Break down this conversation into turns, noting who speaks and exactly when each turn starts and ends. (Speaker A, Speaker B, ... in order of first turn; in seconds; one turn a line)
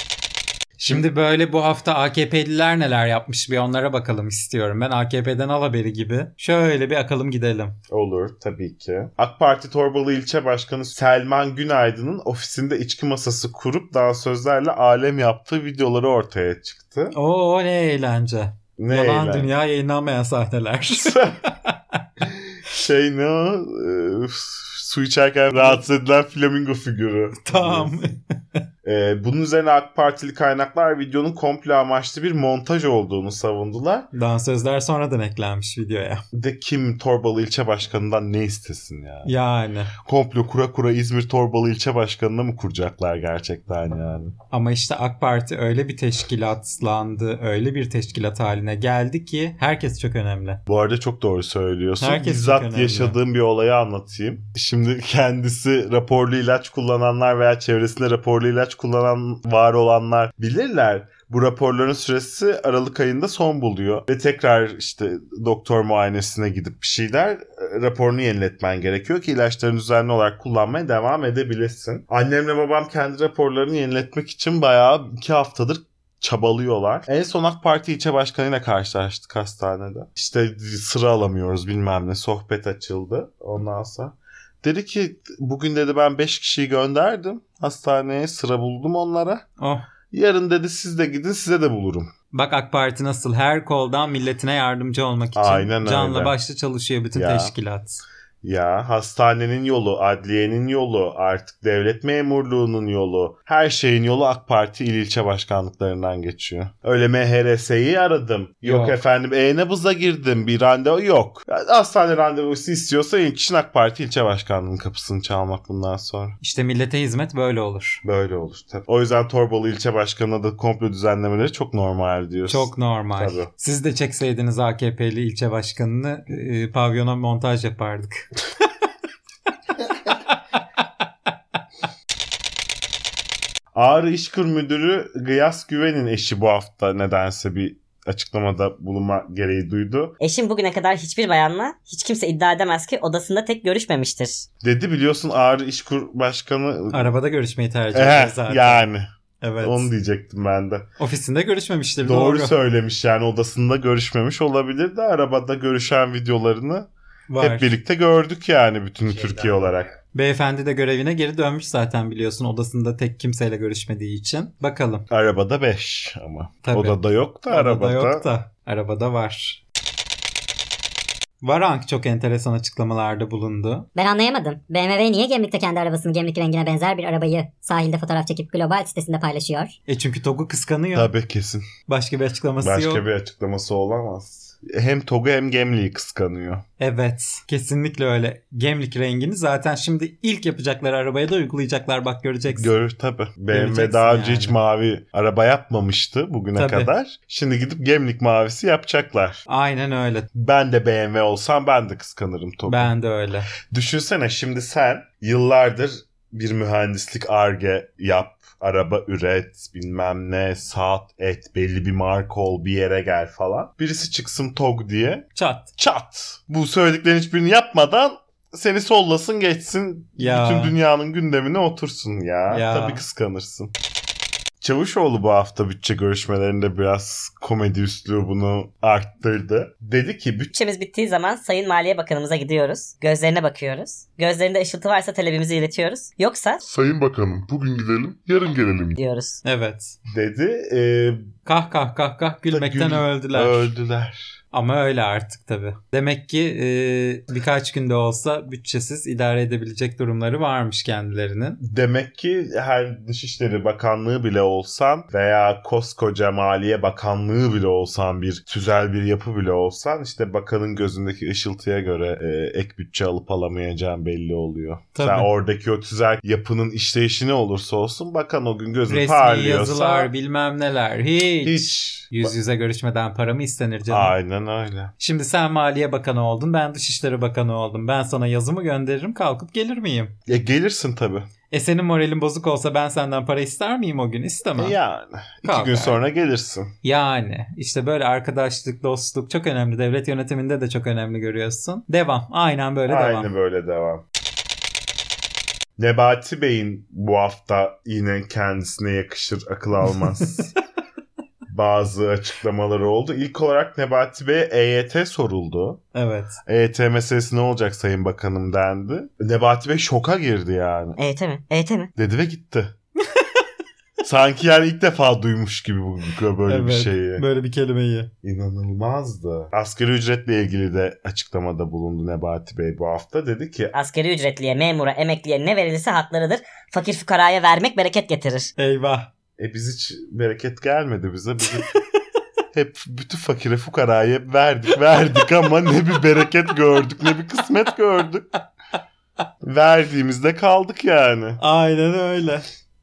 Speaker A: 0.8-7.8
Speaker B: 7.9-17.1
Speaker A: 17.1-22.0
Speaker B: 18.8-19.5
Speaker B: 20.9-21.4
Speaker B: 22.3-28.0
Speaker A: 27.4-28.6
Speaker B: 28.8-34.1
Speaker A: 34.1-36.2
Speaker B: 36.3-39.3
Speaker A: 39.2-39.9
Speaker B: 40.0-44.3
Speaker A: 44.5-50.6
Speaker B: 50.7-89.5
Speaker A: 52.0-53.2
Speaker A: 89.6-89.8
Speaker B: 90.1-92.1
Speaker A: 92.3-98.0
Speaker B: 95.3-96.3
Speaker B: 97.1-97.5
Speaker B: 98.4-116.4
Speaker A: 108.6-109.0
Speaker A: 116.4-118.0
Speaker B: 118.0-123.5
Speaker A: 122.5-128.3
Speaker B: 133.7-140.1
Speaker C: 140.2-144.5
Speaker B: 144.6-147.1
Speaker A: 146.9-148.9
Speaker B: 147.9-149.1
Speaker A: 149.4-149.9
Speaker B: 149.6-150.8
Speaker A: 151.0-152.5
Speaker B: 152.0-159.9
Speaker A: 157.3-157.7
Speaker A: 160.1-165.1
Speaker B: 165.1-168.2
Speaker A: 166.6-169.6
Speaker A: 171.4-173.9
Speaker D: 173.9-179.8
Speaker A: 179.9-181.1
Speaker B: 180.9-181.7
Speaker A: 181.9-183.0
Speaker B: 182.6-186.6
Speaker A: 186.8-192.7
Speaker B: 192.5-199.4
Speaker A: 193.5-194.6
Speaker A: 196.6-196.9
Speaker A: 199.5-200.3
Speaker B: 200.3-202.9
Speaker A: 202.7-203.5
Speaker B: 203.6-223.7
Speaker A: 215.3-215.7
Speaker A: 220.2-220.8
Speaker A: 222.5-223.0
Speaker B: 224.6-230.5
Speaker C: 230.5-236.6
Speaker E: 236.6-239.0
Speaker C: 238.9-239.4
Speaker A: 239.4-239.9
Speaker B: 240.1-241.3
Speaker A: 241.4-243.7
Speaker B: 242.5-244.4
Speaker A: 244.5-251.6
Speaker B: 251.6-270.1
Speaker A: 264.9-265.3
Speaker A: 268.9-274.1
Speaker B: 271.4-272.3
Speaker B: 273.9-274.9
Speaker A: 275.0-280.1
Speaker B: 280.3-281.3
Speaker A: 281.5-284.8
Speaker B: 284.6-286.7
Speaker A: 285.4-286.0
Speaker A: 286.8-293.3
Speaker B: 292.9-294.0
Speaker B: 295.8-300.5
Speaker B: 301.5-305.8
Speaker A: 305.9-306.4
Speaker B: 306.4-311.0
Speaker C: 311.0-311.9
Speaker B: 312.0-312.7
Speaker B: 314.0-317.2
Speaker A: 316.5-318.1
Speaker B: 318.2-323.7
Speaker C: 323.7-328.5
Speaker A: 328.6-329.1
Speaker B: 329.4-331.7
Speaker B: 332.5-338.3
Speaker B: 339.4-341.4
Speaker A: 341.4-342.5